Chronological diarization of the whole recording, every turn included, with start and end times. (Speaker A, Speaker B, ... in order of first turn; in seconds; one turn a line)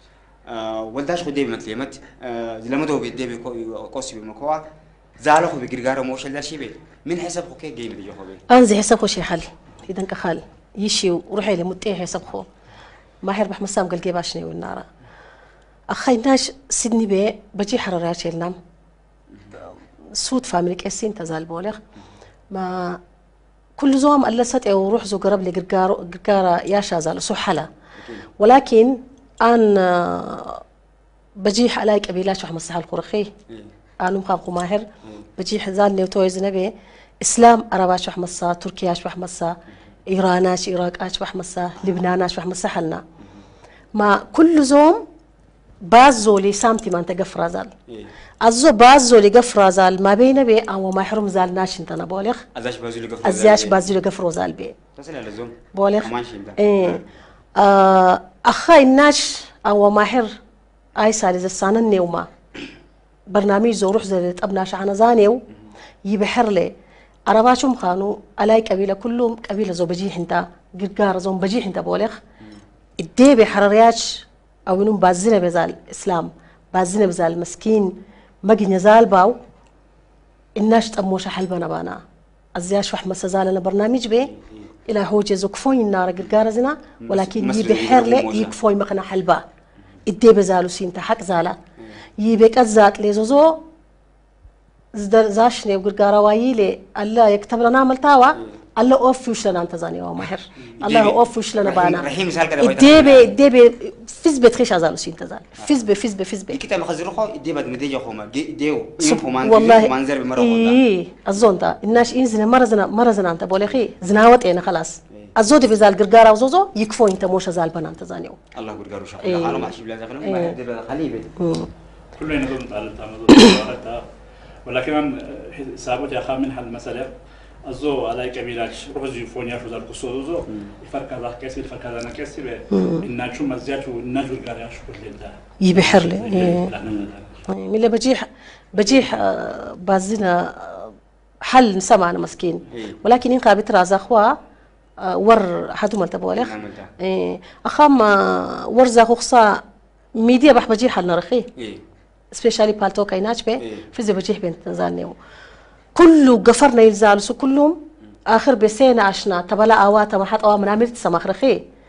Speaker A: 0.5-4.6
Speaker A: 5.2-8.4
Speaker B: 8.5-12.5
Speaker B: 13.2-14.8
Speaker B: 15.9-18.6
Speaker B: 20.1-21.8
Speaker B: 22.5-23.0
Speaker B: 23.8-27.7
Speaker A: 28.0-28.2
Speaker B: 28.4-30.6
Speaker B: 31.4-33.3
Speaker B: 34.0-39.5
Speaker B: 40.1-43.0
Speaker B: 43.9-45.0
Speaker B: 45.8-47.7
Speaker B: 48.4-52.4
Speaker A: 52.5-53.8
Speaker B: 53.2-54.8
Speaker A: 55.0-57.0
Speaker B: 55.7-57.0
Speaker B: 57.5-60.4
Speaker B: 61.0-62.3
Speaker B: 63.3-65.4
Speaker B: 66.0-66.7
Speaker B: 67.3-72.2
Speaker B: 73.0-79.4
Speaker B: 80.5-82.0
Speaker B: 82.5-84.3
Speaker A: 84.3-84.6
Speaker B: 84.8-89.4
Speaker A: 87.0-88.5
Speaker B: 90.0-91.6
Speaker B: 92.2-93.6
Speaker B: 94.9-102.1
Speaker A: 100.6-103.3
Speaker B: 102.6-106.6
Speaker A: 106.5-110.8
Speaker B: 109.0-118.4
Speaker A: 118.5-121.3
Speaker B: 119.2-119.7
Speaker B: 120.2-120.5
Speaker B: 121.4-121.7
Speaker C: 122.2-124.0
Speaker C: 124.6-127.1
Speaker C: 127.7-137.4
Speaker B: 132.7-133.1
Speaker B: 135.6-136.7
Speaker B: 137.5-140.9
Speaker B: 141.4-144.3
Speaker A: 142.7-143.0
Speaker B: 145.0-149.6
Speaker A: 146.3-146.9
Speaker B: 150.2-151.5
Speaker A: 151.6-151.8
Speaker B: 152.3-155.2
Speaker A: 153.6-153.9
Speaker B: 155.9-161.6